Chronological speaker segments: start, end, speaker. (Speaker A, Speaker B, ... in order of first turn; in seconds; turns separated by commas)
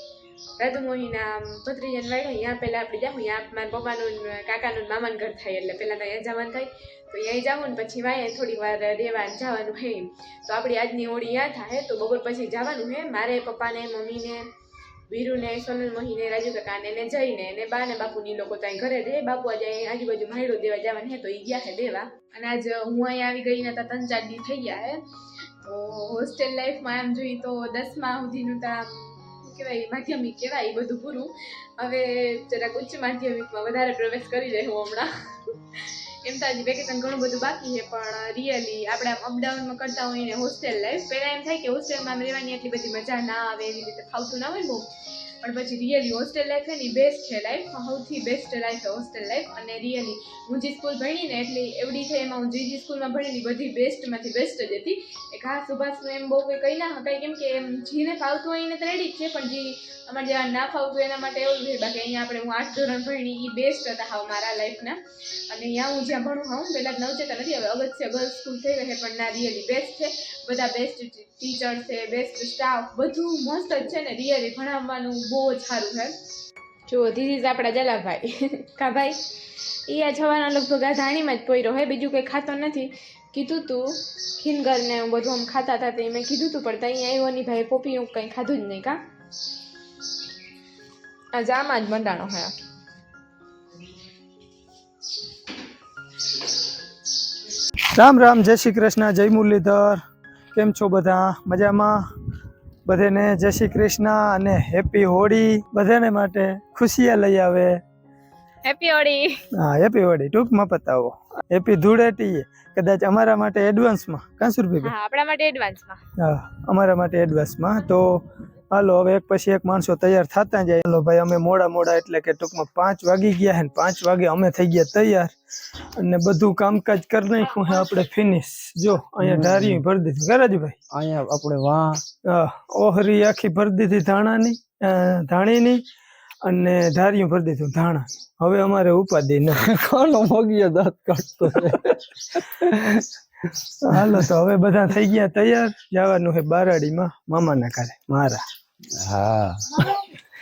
Speaker A: 0.6-14.4, Speaker A: 15.1-25.0, Speaker A: 25.6-44.9, Speaker A: 45.4-76.1, Speaker A: 76.9-79.2, Speaker A: 79.9-89.0, Speaker A: 91.3-92.5, Speaker B: 97.9-100.0, Speaker B: 100.5-102.0, Speaker B: 102.8-107.8, Speaker A: 108.6-109.4, Speaker B: 109.5-114.9, Speaker A: 114.8-116.0, Speaker B: 116.2-125.3, Speaker B: 126.0-130.8, Speaker C: 129.2-129.8, Speaker C: 130.9-132.0, Speaker B: 132.3-135.8, Speaker B: 136.4-139.6, Speaker C: 139.6-143.0, Speaker B: 141.5-141.9, Speaker B: 143.9-148.4, Speaker C: 143.9-144.2, Speaker C: 148.9-149.6